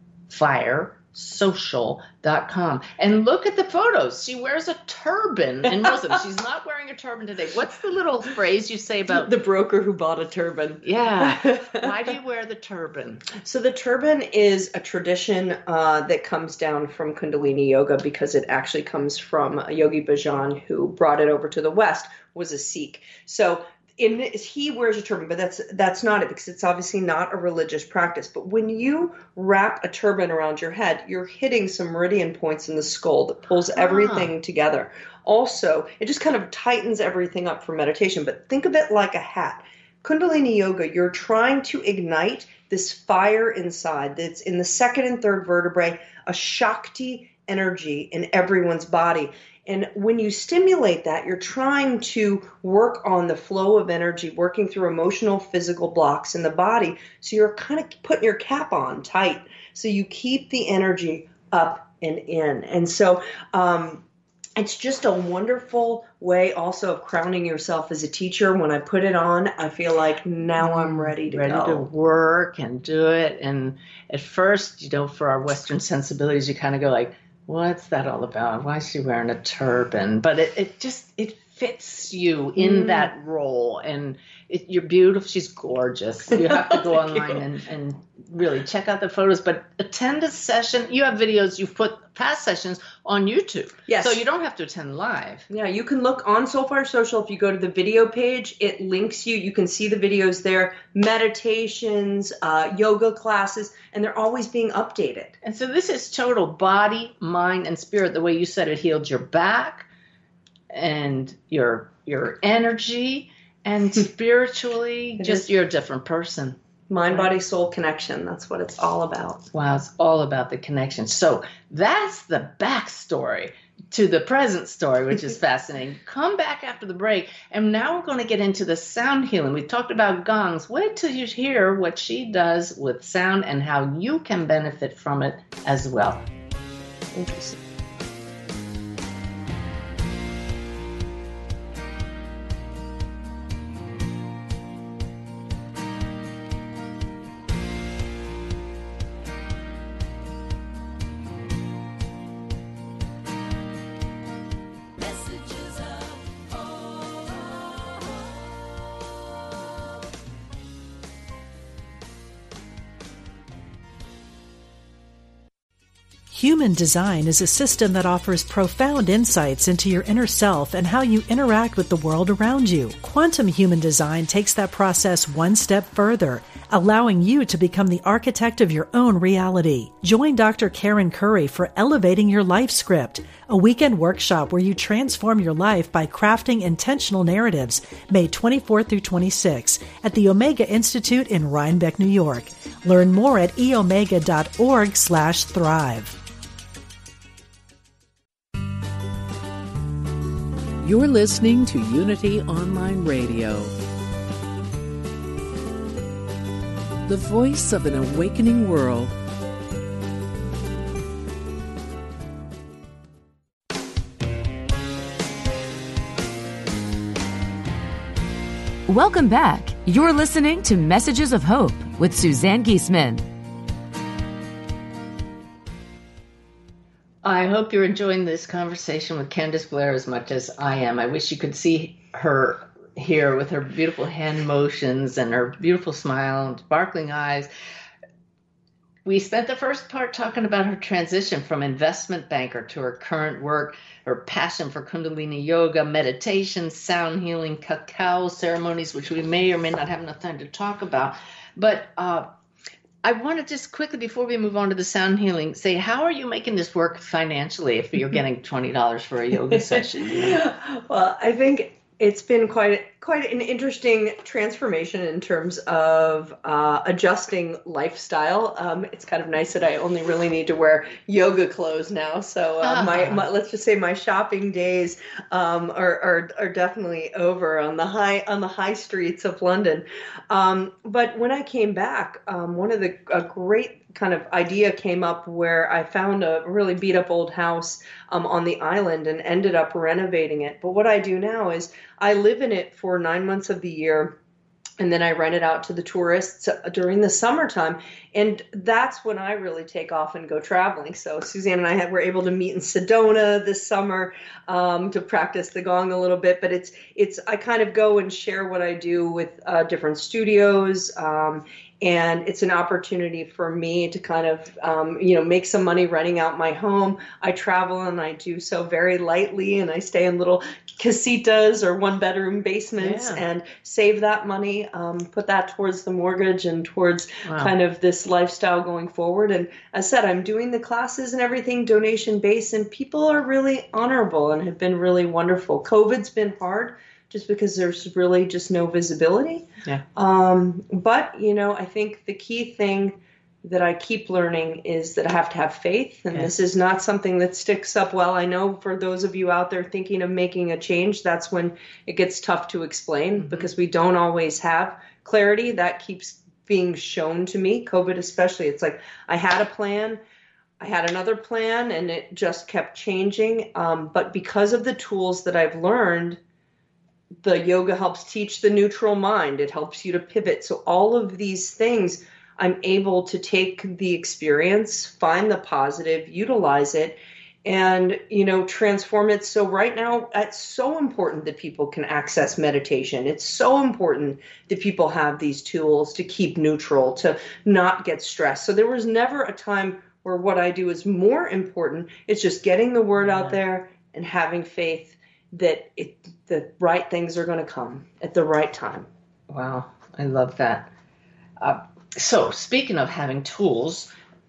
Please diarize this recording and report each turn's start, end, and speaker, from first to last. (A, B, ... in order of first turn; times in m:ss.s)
0:00.3-0:09.3 A
0:09.1-0:11.9 B
0:10.8-0:13.3 A
0:13.3-1:04.0 B
0:33.8-0:34.3 A
1:04.6-1:11.9 B
1:10.6-1:35.5 A
1:22.6-1:23.1 B
1:26.3-1:27.4 B
1:33.9-1:34.2 B
1:35.5-1:45.3 B
1:45.4-1:49.9 A
1:50.7-1:56.6 A
1:55.2-1:55.5 B
1:56.9-1:59.5 B
1:59.5-2:16.2 A
2:17.1-2:17.6 B
2:35.0-2:37.8 C
2:46.3-3:16.2 D
3:20.8-3:23.7 E
3:27.1-3:29.1 E
3:38.9-3:43.3 C
3:47.2-3:57.5 A
3:59.0-4:12.2 A
4:13.0-4:20.4 A
4:19.5-4:54.2 B
4:32.6-4:33.2 A
4:54.8-6:00.0 B
5:22.8-5:23.2 A
5:27.2-5:27.5 A
5:53.2-5:53.5 A
6:00.6-6:06.2 B
6:07.2-6:38.9 B
6:33.0-6:33.4 A
6:39.3-6:40.7 A
6:41.4-6:43.9 A